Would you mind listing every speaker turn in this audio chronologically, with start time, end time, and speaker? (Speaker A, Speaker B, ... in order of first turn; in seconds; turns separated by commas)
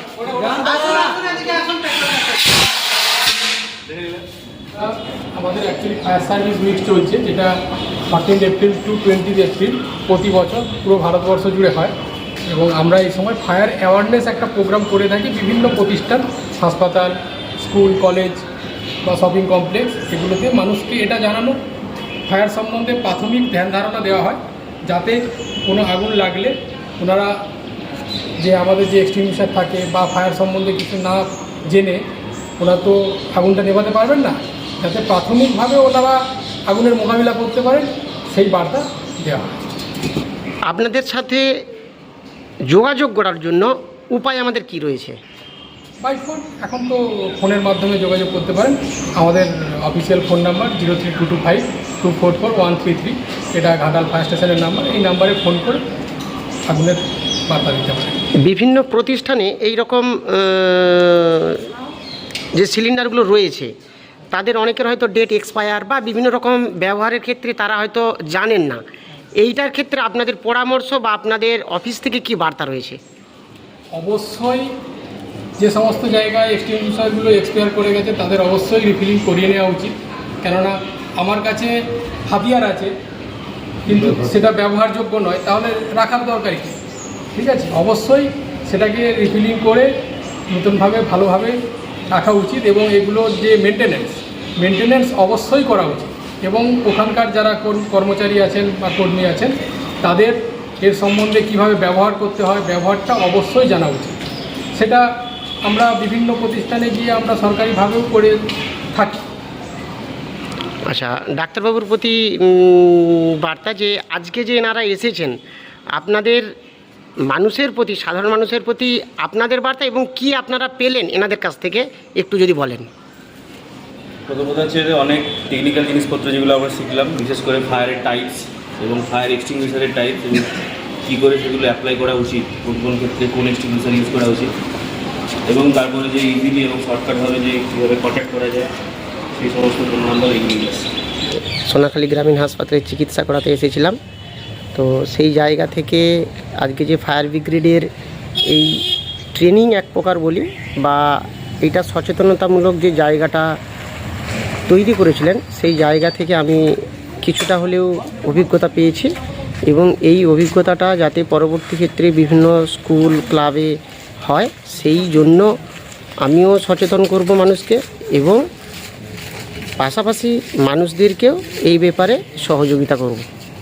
Speaker A: 0.7-2.2, Speaker B: 3.9-4.2, Speaker C: 4.7-11.9, Speaker C: 12.5-18.4, Speaker C: 19.0-21.6, Speaker C: 22.3-27.4, Speaker C: 28.4-32.0, Speaker C: 32.6-39.5, Speaker A: 40.6-41.6, Speaker A: 42.7-45.2, Speaker C: 46.0-55.8, Speaker C: 56.7-58.2, Speaker A: 58.4-61.7, Speaker A: 62.5-63.7, Speaker A: 64.3-68.8, Speaker A: 69.4-73.0, Speaker C: 73.9-74.7, Speaker C: 75.6-82.9, Speaker C: 83.8-86.8, Speaker C: 87.3-89.9, Speaker C: 90.5-91.6, Speaker C: 92.1-104.2, Speaker C: 104.7-105.0, Speaker C: 105.6-108.3, Speaker C: 108.9-109.2, Speaker A: 110.9-115.4, Speaker A: 115.9-116.5, Speaker A: 117.3-122.9, Speaker B: 124.3-130.5, Speaker B: 131.0-134.5, Speaker B: 135.4-138.7, Speaker B: 139.3-140.9, Speaker A: 141.6-144.0, Speaker A: 144.7-147.9, Speaker A: 148.4-153.6, Speaker A: 154.7-165.5, Speaker A: 166.2-168.4, Speaker A: 169.8-173.2